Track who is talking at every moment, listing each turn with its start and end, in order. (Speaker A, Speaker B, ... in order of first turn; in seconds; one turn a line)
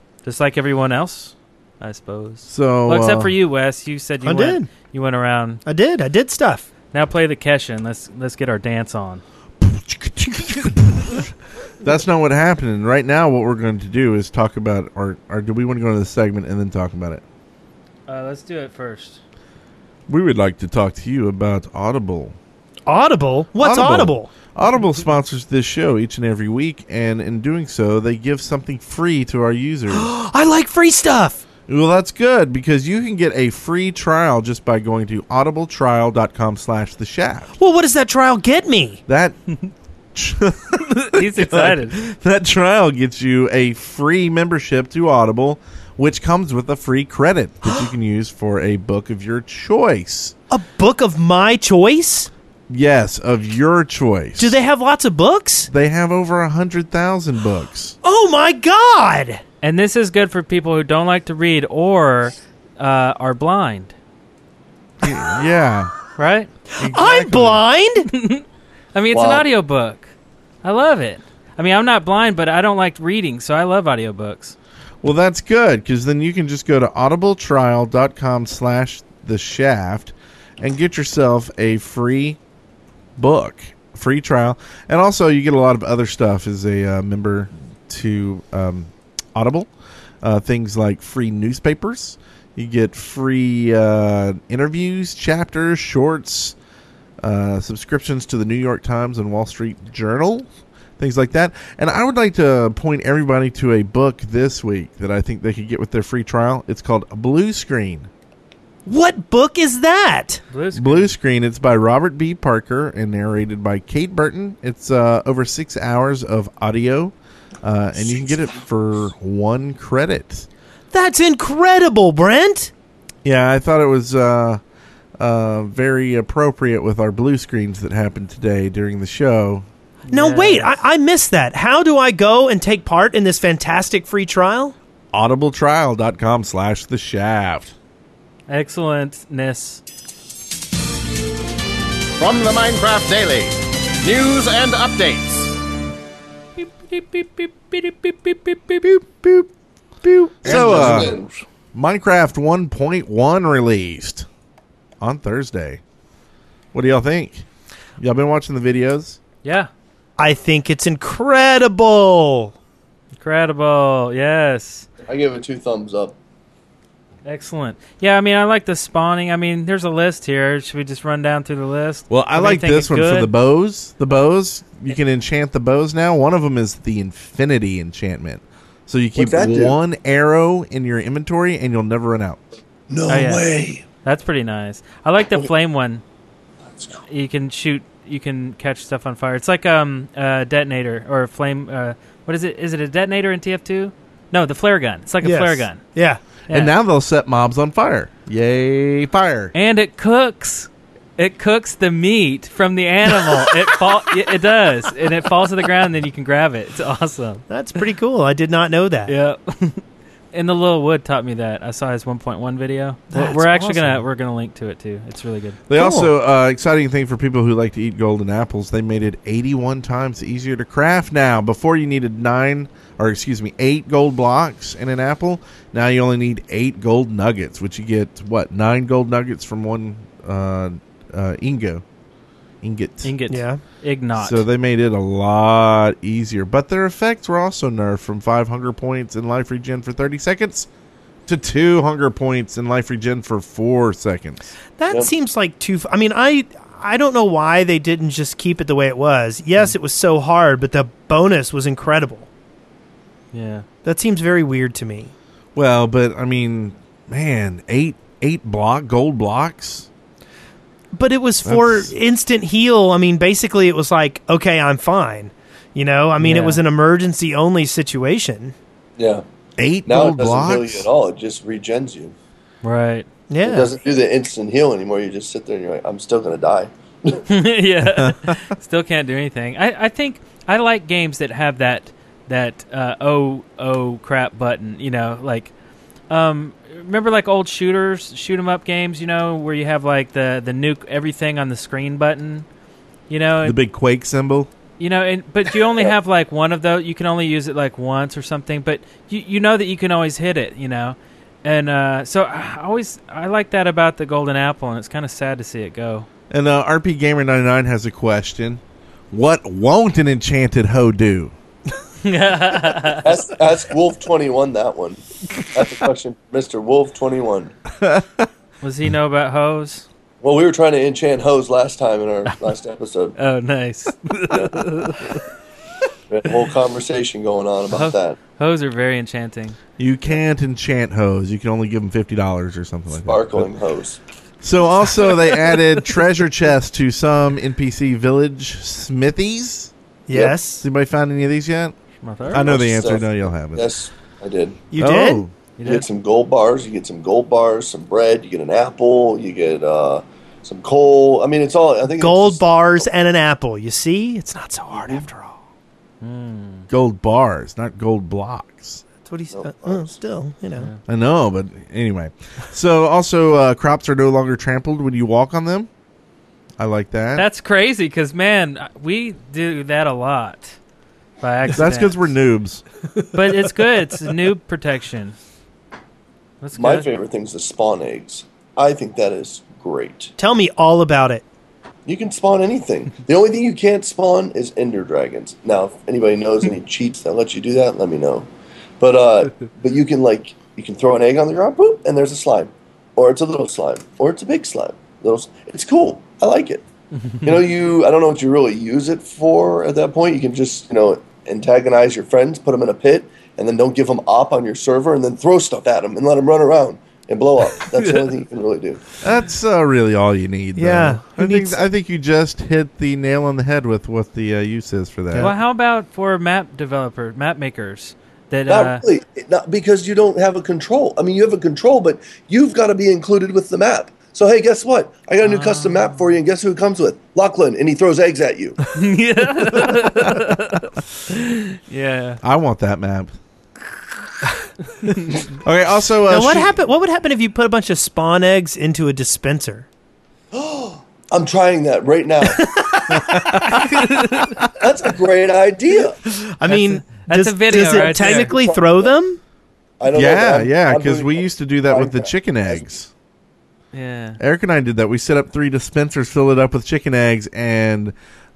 Speaker A: 0.2-5.6
Speaker B: 2.5-3.3
Speaker C: 4.2-4.7
Speaker C: 5.7-6.7
Speaker A: 6.9-9.2
Speaker B: 9.6-11.3
Speaker B: 11.8-17.2
Speaker A: 18.1-19.2
Speaker B: 20.1-22.4
Speaker C: 22.9-24.3
Speaker B: 23.6-30.1
Speaker C: 29.9-31.4
Speaker B: 31.7-37.5
Speaker C: 37.6-39.0
Speaker B: 39.1-39.5
Speaker B: 40.1-50.3
Speaker A: 41.1-42.0
Speaker C: 50.5-52.3
Speaker B: 52.7-54.6
Speaker C: 54.4-55.7
Speaker B: 55.7-58.0
Speaker C: 58.0-59.4
Speaker A: 59.6-63.9
Speaker B: 65.0-65.9
Speaker A: 66.2-66.5
Speaker C: 66.8-68.1
Speaker B: 66.8-67.6
Speaker A: 68.1-70.1
Speaker D: 69.1-69.5
Speaker A: 70.6-74.5
Speaker B: 75.0-82.4
Speaker B: 83.2-89.7
Speaker B: 90.2-96.5
Speaker B: 97.2-100.5
Speaker B: 101.0-108.1
Speaker C: 108.8-110.4
Speaker A: 110.5-111.1
Speaker B: 110.7-120.5
Speaker C: 120.9-122.7
Speaker B: 123.2-124.6
Speaker B: 125.2-129.7
Speaker A: 130.1-130.8
Speaker C: 130.1-134.7
Speaker B: 135.1-137.7
Speaker A: 138.5-139.8
Speaker E: 142.2-143.5
Speaker E: 144.1-145.4
Speaker A: 146.6-149.0
Speaker B: 150.3-151.1
Speaker D: 150.4-151.3
Speaker B: 151.7-154.3
Speaker B: 155.0-155.8
Speaker B: 156.7-157.4
Speaker B: 158.0-159.2
Speaker A: 159.4-159.7
Speaker C: 160.2-162.5
Speaker A: 163.2-164.9
Speaker D: 165.1-166.2
Speaker A: 167.2-173.3
Speaker B: 172.1-182.4
Speaker D: 179.2-179.8
Speaker D: 182.9-183.8
Speaker A: 183.1-183.5
Speaker A: 184.0-186.0
Speaker A: 187.1-195.8
Speaker C: 195.2-196.2
Speaker B: 196.5-199.5
Speaker A: 199.5-207.4
Speaker C: 203.2-203.5
Speaker C: 207.5-209.1
Speaker A: 209.1-209.8
Speaker A: 210.3-215.6
Speaker C: 213.1-214.0
Speaker B: 215.7-231.8
Speaker C: 215.8-216.1
Speaker B: 232.6-233.1
Speaker A: 233.0-234.4
Speaker C: 233.3-233.6
Speaker B: 234.2-240.7
Speaker B: 241.2-244.5
Speaker C: 244.8-252.3
Speaker A: 253.3-253.6
Speaker C: 253.8-255.1
Speaker B: 255.5-259.9
Speaker C: 260.9-268.5
Speaker B: 261.4-261.9
Speaker A: 266.2-266.6
Speaker D: 269.0-269.2
Speaker B: 269.6-270.9
Speaker D: 269.9-272.1
Speaker A: 272.6-273.1
Speaker C: 273.3-273.7
Speaker D: 273.4-277.2
Speaker A: 277.3-285.5
Speaker B: 277.9-278.4
Speaker A: 286.1-292.4
Speaker A: 293.1-293.6
Speaker B: 293.4-294.5
Speaker A: 294.8-306.1
Speaker B: 306.3-311.3
Speaker A: 312.0-313.1
Speaker D: 313.0-317.5
Speaker B: 317.8-318.3
Speaker A: 318.6-319.9
Speaker D: 320.2-323.1
Speaker A: 323.2-325.2
Speaker D: 326.1-328.2
Speaker A: 327.7-329.6
Speaker B: 329.8-333.5
Speaker D: 333.0-334.0
Speaker B: 334.4-339.7
Speaker C: 340.1-340.6
Speaker D: 340.1-340.4
Speaker B: 340.6-341.7
Speaker A: 342.0-342.5
Speaker B: 342.3-343.7
Speaker D: 342.3-344.6
Speaker C: 344.7-345.2
Speaker B: 344.8-345.3
Speaker A: 345.6-345.9
Speaker D: 345.6-352.9
Speaker C: 351.9-355.4
Speaker D: 354.7-355.0
Speaker A: 356.0-356.7
Speaker B: 356.7-358.8
Speaker C: 359.0-360.7
Speaker D: 359.3-359.9
Speaker B: 360.9-365.7
Speaker B: 366.6-367.2
Speaker A: 367.1-370.6
Speaker A: 371.2-372.1
Speaker B: 371.5-372.6
Speaker A: 373.1-375.1
Speaker A: 376.4-376.9
Speaker D: 376.5-380.1
Speaker C: 380.2-381.2
Speaker D: 381.9-388.3
Speaker D: 388.8-396.6
Speaker D: 397.2-408.9
Speaker B: 409.0-415.3
Speaker C: 410.6-411.6
Speaker A: 415.2-418.8
Speaker D: 418.5-428.6
Speaker A: 425.2-426.1
Speaker A: 428.7-432.2
Speaker B: 432.2-433.1
Speaker B: 435.4-436.6
Speaker C: 436.1-439.7
Speaker D: 440.3-442.4
Speaker C: 442.4-443.3
Speaker B: 442.9-443.7
Speaker A: 443.6-444.3
Speaker D: 444.6-446.0
Speaker C: 446.1-449.2
Speaker A: 446.5-448.3
Speaker D: 447.5-448.9
Speaker D: 449.8-452.7
Speaker B: 449.9-452.9
Speaker A: 453.7-454.2
Speaker B: 454.2-457.9